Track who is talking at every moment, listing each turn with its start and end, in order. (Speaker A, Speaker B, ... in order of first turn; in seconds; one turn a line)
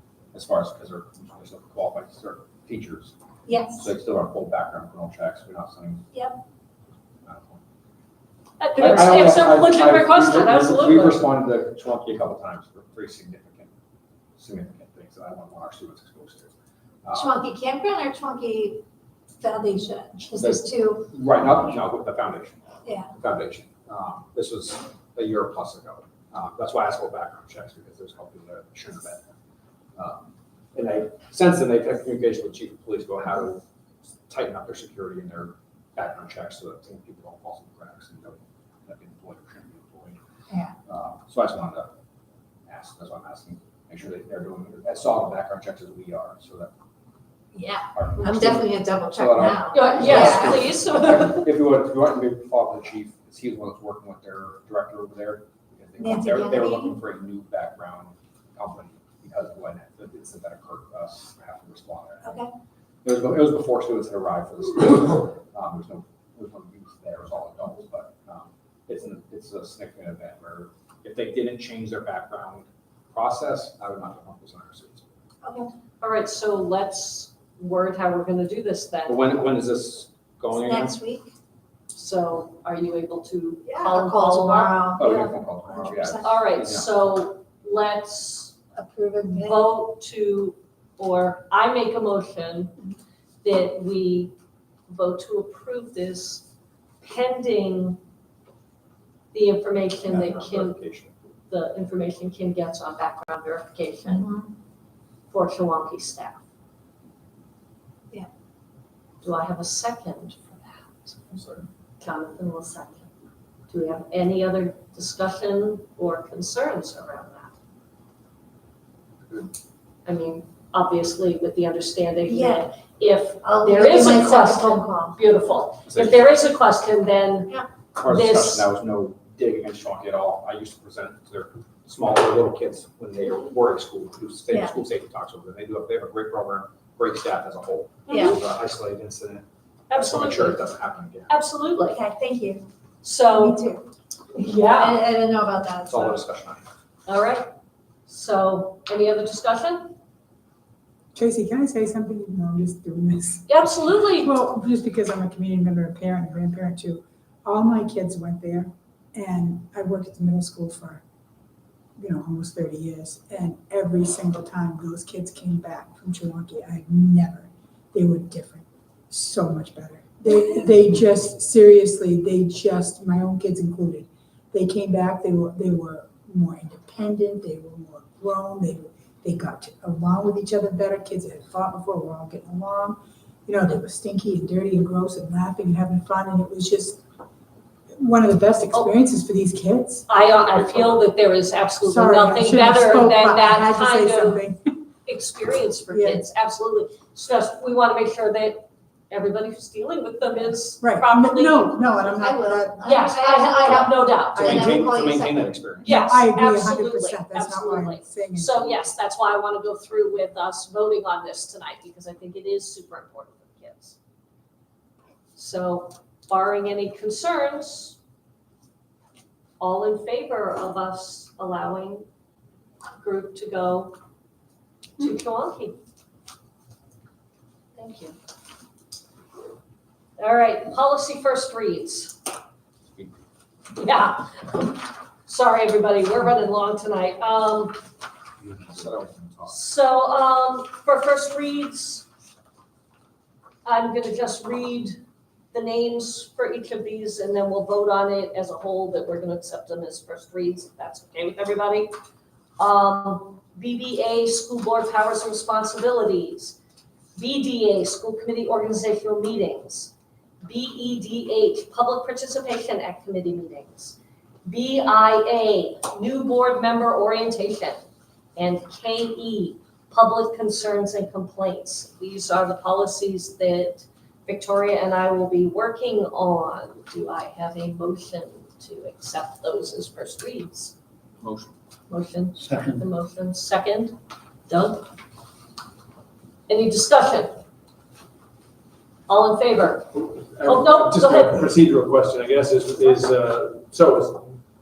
Speaker A: 0.3-3.1
Speaker B: 3.5-3.9
Speaker A: 3.7-6.1
Speaker A: 7.2-7.6
Speaker C: 8.6-11.3
Speaker A: 8.8-13.7
Speaker A: 14.4-16.5
Speaker A: 17.0-17.4
Speaker B: 17.1-18.8
Speaker B: 19.4-21.1
Speaker A: 20.4-22.6
Speaker A: 23.1-29.2
Speaker A: 29.9-33.6
Speaker A: 34.3-40.2
Speaker A: 40.9-41.9
Speaker A: 42.7-46.7
Speaker B: 47.5-50.7
Speaker A: 47.9-62.4
Speaker C: 49.7-51.5
Speaker B: 56.0-57.0
Speaker B: 62.2-62.5
Speaker A: 63.0-75.1
Speaker B: 75.4-75.7
Speaker C: 76.0-79.3
Speaker A: 79.0-81.0
Speaker B: 80.5-81.3
Speaker C: 81.9-85.2
Speaker B: 83.7-86.3
Speaker A: 84.9-86.9
Speaker C: 86.2-88.5
Speaker B: 88.7-89.7
Speaker C: 89.3-92.8
Speaker C: 93.4-94.3
Speaker C: 94.9-96.4
Speaker C: 97.0-98.0
Speaker C: 99.3-100.8
Speaker A: 100.0-101.1
Speaker C: 101.5-104.3
Speaker B: 104.0-104.5
Speaker C: 105.3-106.4
Speaker C: 109.2-111.4
Speaker A: 111.3-111.6
Speaker C: 112.0-113.1
Speaker C: 113.7-117.5
Speaker C: 120.0-128.7
Speaker B: 122.3-122.7
Speaker B: 123.4-125.2
Speaker A: 125.9-126.2
Speaker A: 128.0-141.4
Speaker B: 134.5-134.8
Speaker C: 138.1-138.4
Speaker B: 138.1-138.3
Speaker C: 139.9-140.7
Speaker C: 141.3-142.0
Speaker B: 141.9-142.7
Speaker C: 143.0-143.6
Speaker B: 143.3-143.8
Speaker C: 144.3-145.1
Speaker B: 144.6-146.2
Speaker A: 145.8-146.6
Speaker C: 147.1-147.5
Speaker C: 148.1-149.9
Speaker D: 151.1-161.0
Speaker C: 153.5-154.3
Speaker D: 162.0-187.0
Speaker D: 188.0-190.1
Speaker C: 190.1-194.4
Speaker A: 190.2-191.0
Speaker D: 191.8-194.8
Speaker C: 195.0-201.9
Speaker D: 195.9-196.2
Speaker D: 200.8-203.0
Speaker B: 202.0-205.6
Speaker C: 202.8-204.7
Speaker A: 204.3-206.1
Speaker D: 205.8-208.9
Speaker C: 205.8-214.0
Speaker C: 215.3-218.0
Speaker C: 219.6-222.0
Speaker C: 223.0-223.9
Speaker C: 225.0-225.8
Speaker C: 227.8-228.2
Speaker C: 230.2-232.2
Speaker C: 233.8-237.8
Speaker A: 238.4-239.6
Speaker C: 239.5-242.1
Speaker C: 243.6-245.0
Speaker C: 245.5-251.9
Speaker C: 252.6-256.6
Speaker C: 257.1-267.8
Speaker C: 268.4-280.7
Speaker A: 281.2-281.5
Speaker C: 281.9-283.9
Speaker C: 284.5-284.9
Speaker C: 286.5-287.4
Speaker C: 289.1-291.5
Speaker E: 290.4-294.2
Speaker A: 291.8-292.5